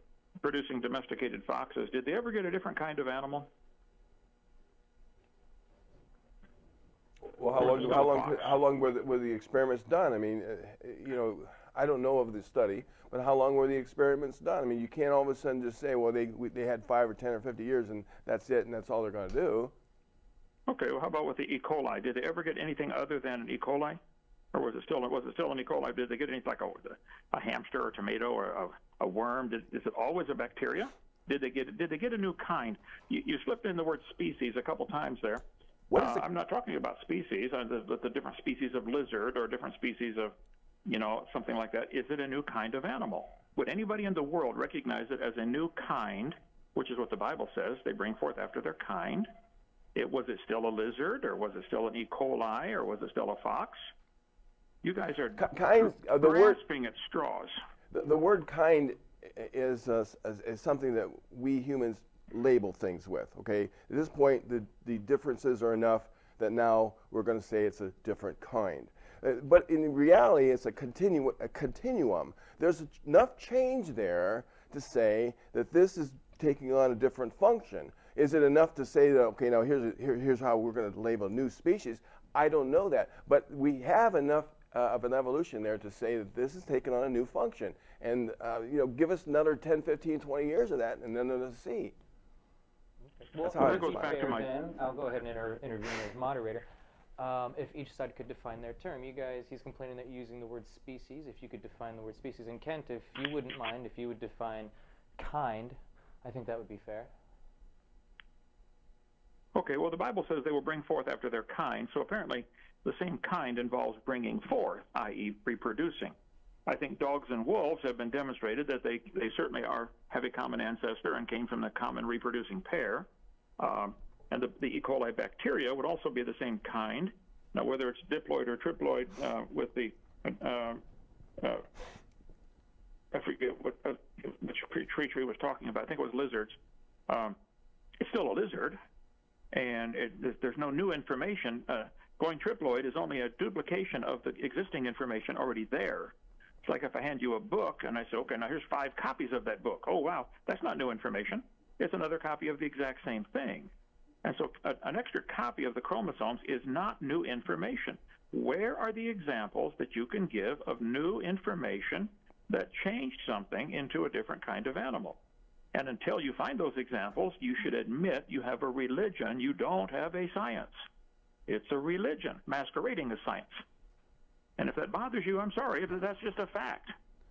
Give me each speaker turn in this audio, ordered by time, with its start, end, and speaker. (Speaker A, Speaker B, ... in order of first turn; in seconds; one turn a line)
Speaker A: 0.4-3.5
Speaker B: 7.3-19.7
Speaker A: 7.5-8.6
Speaker A: 20.7-24.0
Speaker A: 24.5-35.4
Speaker B: 35.9-36.3
Speaker A: 35.9-40.3
Speaker A: 40.9-49.3
Speaker A: 49.9-53.9
Speaker A: 54.8-57.6
Speaker B: 55.4-56.6
Speaker B: 57.9-92.0
Speaker C: 93.0-96.6
Speaker B: 93.4-94.2
Speaker A: 93.6-94.5
Speaker C: 97.2-107.1
Speaker A: 109.5-116.1
Speaker A: 116.7-123.1
Speaker A: 123.6-130.8
Speaker A: 131.4-131.7
Speaker A: 133.1-136.6
Speaker A: 137.1-137.3
Speaker A: 138.0-138.8
Speaker A: 139.5-153.7
Speaker A: 154.2-165.2
Speaker A: 165.7-170.7
Speaker A: 171.5-173.6
Speaker A: 174.6-176.9